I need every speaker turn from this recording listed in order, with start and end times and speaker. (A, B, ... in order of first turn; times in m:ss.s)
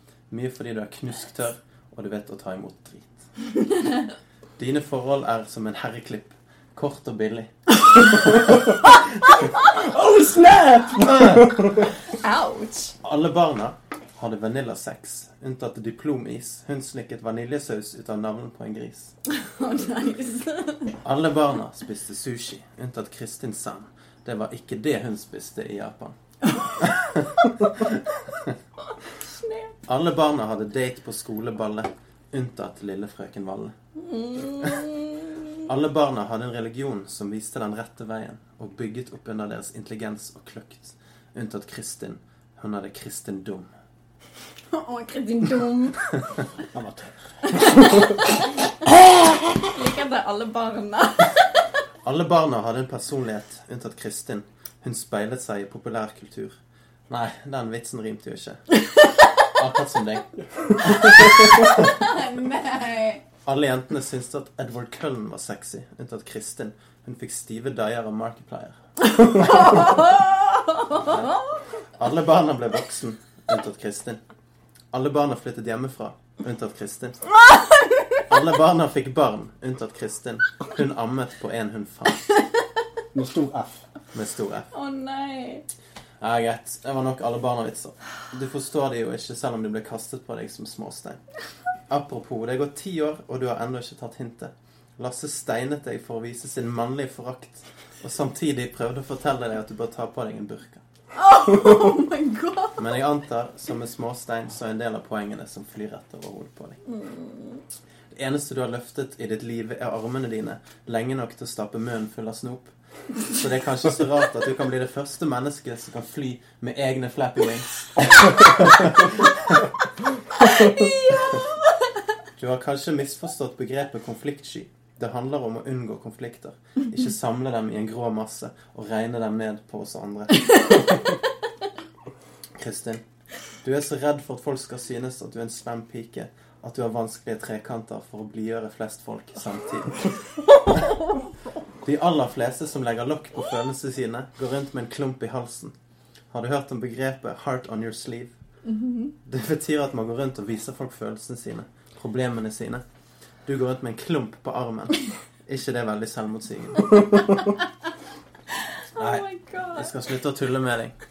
0:00.3-0:03.2 A
0:04.6-0:08.6 A
0:09.7-0:11.8 B
0:11.1-0:11.4 A
0:12.2-0:12.9 C
0:13.0-0:19.1 A
0:19.4-0:20.9 C
0:21.0-0:26.1 A
0:26.8-0:28.5 A
0:29.3-0:29.7 C
0:29.9-0:33.7 A
0:34.0-0:35.2 C
0:35.7-0:43.7 A
0:44.7-0:46.0 C
0:46.7-0:48.1 B
0:47.5-0:48.0 C
0:49.7-0:51.6 C
0:52.0-0:56.5 A
0:57.1-0:58.6 A
0:59.5-1:01.9 A
1:01.6-1:03.2 C
1:03.4-1:08.8 A
1:09.1-1:11.4 C
1:11.0-1:11.3 A
1:12.0-1:14.2 A
1:14.9-1:17.2 A
1:17.4-1:18.2 C
1:18.3-1:22.3 A
1:23.1-1:23.8 B
1:24.1-1:24.7 A
1:24.7-1:25.6 C
1:26.2-1:31.2 A
1:31.9-1:40.8 A
1:41.1-1:42.8 C
1:42.8-1:46.8 A
1:46.9-1:47.6 C
1:48.1-1:52.7 A
1:53.3-1:59.5 A
2:00.6-2:01.2 C
2:02.4-2:10.7 A
2:12.6-2:13.0 A
2:13.6-2:20.1 A
2:21.8-2:25.7 A
2:26.3-2:28.3 A
2:28.6-2:29.1 C
2:29.2-2:32.8 A
2:33.4-2:37.4 A
2:38.9-2:39.9 C
2:39.0-2:40.9 A